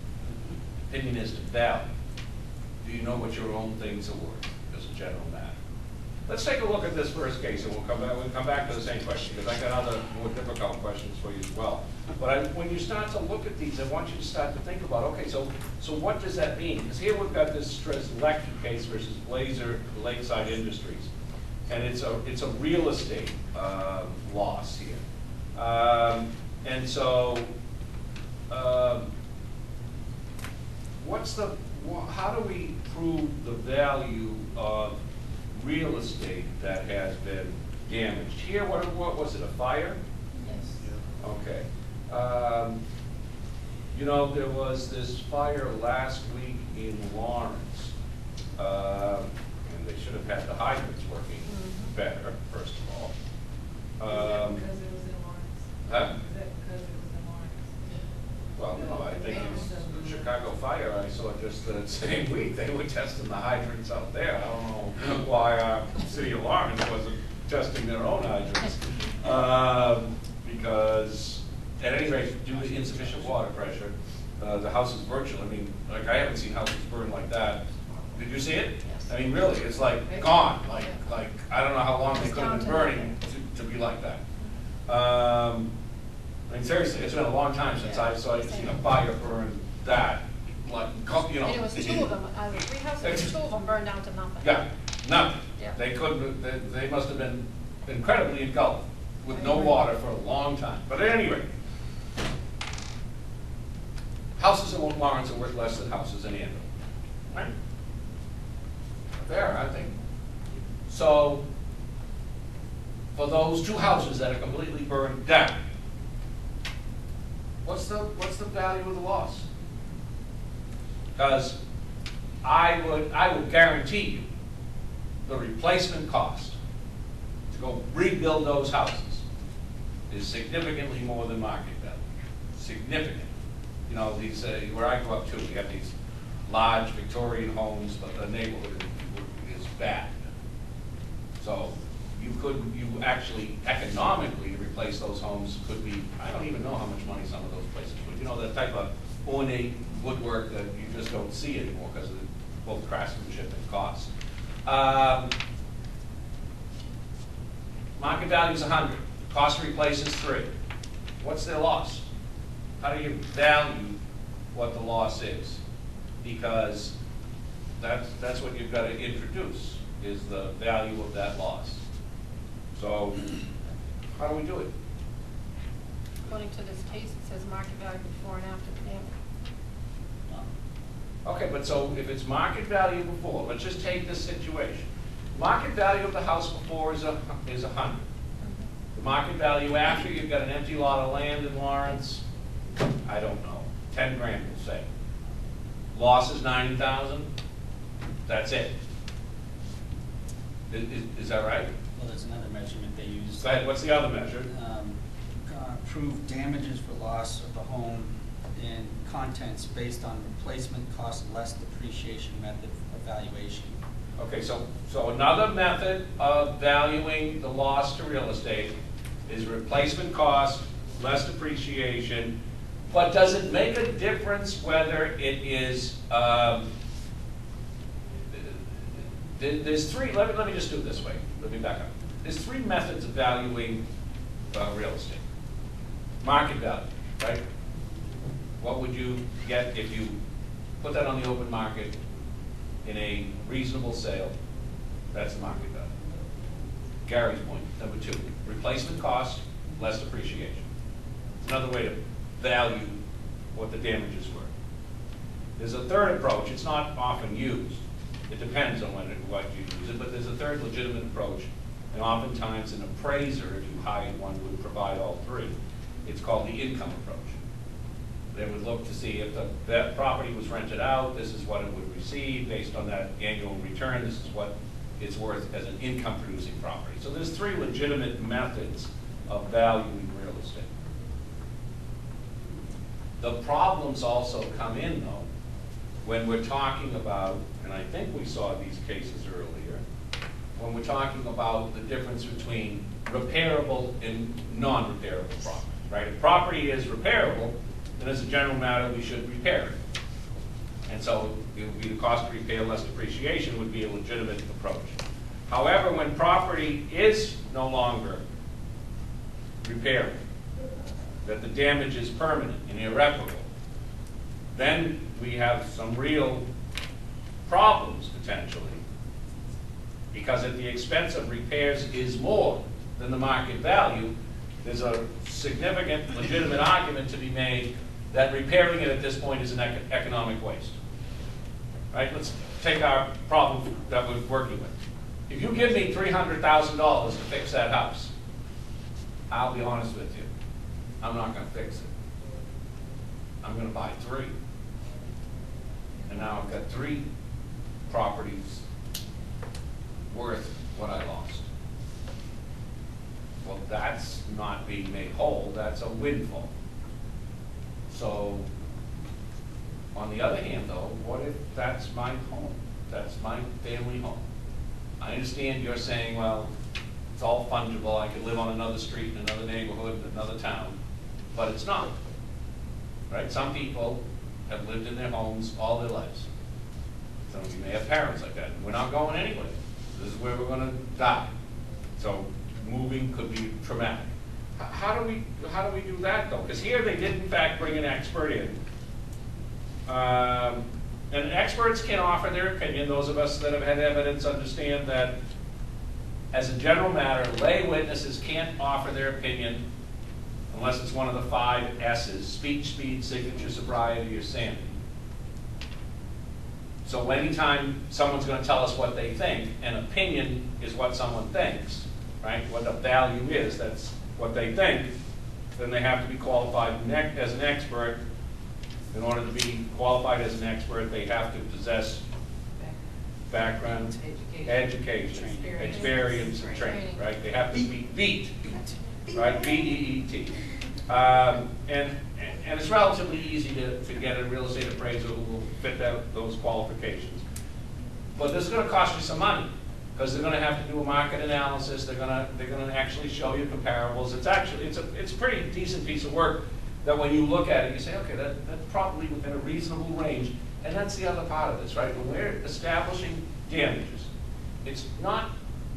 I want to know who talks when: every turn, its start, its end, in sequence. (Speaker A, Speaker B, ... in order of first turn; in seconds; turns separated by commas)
Speaker A: 0.9-1.8, Speaker A: 2.8-5.5, Speaker A: 6.3-21.1, Speaker A: 21.7-25.0, Speaker A: 25.5-27.5, Speaker A: 28.5-29.1, Speaker A: 31.0-35.0, Speaker A: 35.5-40.0, Speaker B: 40.4-40.7, Speaker A: 41.2-42.8, Speaker A: 43.9-47.9, Speaker A: 48.6-53.1, Speaker B: 51.5-51.9, Speaker A: 54.0-54.6, Speaker C: 54.1-58.0, Speaker A: 55.9-56.1, Speaker A: 58.5-77.6, Speaker C: 58.7-60.3, Speaker D: 72.5-73.2, Speaker B: 77.8-78.2, Speaker A: 78.1-84.2, Speaker B: 78.8-79.1, Speaker B: 82.1-83.1, Speaker A: 84.9-85.7, Speaker A: 86.5-92.0, Speaker B: 87.8-88.8, Speaker B: 91.4-94.5, Speaker A: 93.0-93.3, Speaker A: 94.4-101.5, Speaker B: 99.3-99.8, Speaker A: 104.4-106.7, Speaker A: 109.2-109.9, Speaker A: 110.9-111.4, Speaker A: 113.1-115.5, Speaker A: 117.6-119.5, Speaker A: 121.2-121.5, Speaker A: 122.4-124.2, Speaker A: 125.2-126.6, Speaker A: 127.5-129.2, Speaker A: 130.1-133.3, Speaker A: 133.9-135.9, Speaker A: 136.5-140.1, Speaker A: 141.4-154.1, Speaker A: 154.7-155.3, Speaker A: 158.0-160.5, Speaker A: 161.2-162.0, Speaker A: 162.8-164.0, Speaker A: 164.5-165.6, Speaker A: 166.2-166.9, Speaker A: 167.8-171.8, Speaker A: 172.7-173.2, Speaker A: 174.2-174.7, Speaker B: 176.2-179.2, Speaker A: 181.2-188.0, Speaker A: 188.9-192.2, Speaker A: 193.0-194.8, Speaker A: 195.9-197.3, Speaker A: 198.3-198.7, Speaker A: 200.7-201.7, Speaker D: 201.9-203.5, Speaker A: 203.4-204.5, Speaker D: 204.5-213.8, Speaker A: 214.2-218.7, Speaker A: 219.3-222.3, Speaker A: 222.9-226.7, Speaker A: 228.3-228.6, Speaker A: 229.3-233.8, Speaker A: 234.5-235.2, Speaker A: 236.2-237.4, Speaker A: 238.6-240.2, Speaker A: 240.8-241.9, Speaker A: 242.8-244.3, Speaker A: 245.1-245.9, Speaker A: 247.0-250.6, Speaker A: 251.4-253.0, Speaker A: 253.5-254.5, Speaker A: 255.6-265.5, Speaker A: 266.1-267.3, Speaker A: 268.3-280.7, Speaker A: 283.2-285.2, Speaker A: 286.0-289.8, Speaker A: 290.6-299.8, Speaker A: 300.9-304.9, Speaker A: 305.5-308.2, Speaker A: 309.6-310.2, Speaker A: 311.2-313.4, Speaker A: 314.5-316.4, Speaker A: 317.4-318.8, Speaker A: 320.1-330.8, Speaker A: 331.9-334.7, Speaker A: 335.3-338.1, Speaker A: 339.3-340.3, Speaker A: 341.0-341.9, Speaker A: 343.4-344.3, Speaker A: 346.1-347.0, Speaker A: 347.9-348.6, Speaker A: 350.1-351.4, Speaker A: 353.4-356.5, Speaker A: 357.9-358.5, Speaker A: 359.9-364.2, Speaker A: 365.0-366.5, Speaker A: 367.1-370.8, Speaker A: 371.3-371.9, Speaker A: 373.1-376.3, Speaker A: 377.3-381.3, Speaker A: 382.0-388.6, Speaker A: 389.9-395.1, Speaker A: 396.3-399.6, Speaker A: 400.5-404.7, Speaker A: 406.8-414.9, Speaker A: 415.6-418.0, Speaker A: 418.9-422.0, Speaker C: 422.6-426.5, Speaker A: 423.3-428.5, Speaker D: 425.1-425.7, Speaker B: 425.7-427.0, Speaker D: 428.4-429.7, Speaker A: 429.1-430.3, Speaker A: 430.9-437.2, Speaker A: 438.1-454.1, Speaker A: 454.6-455.3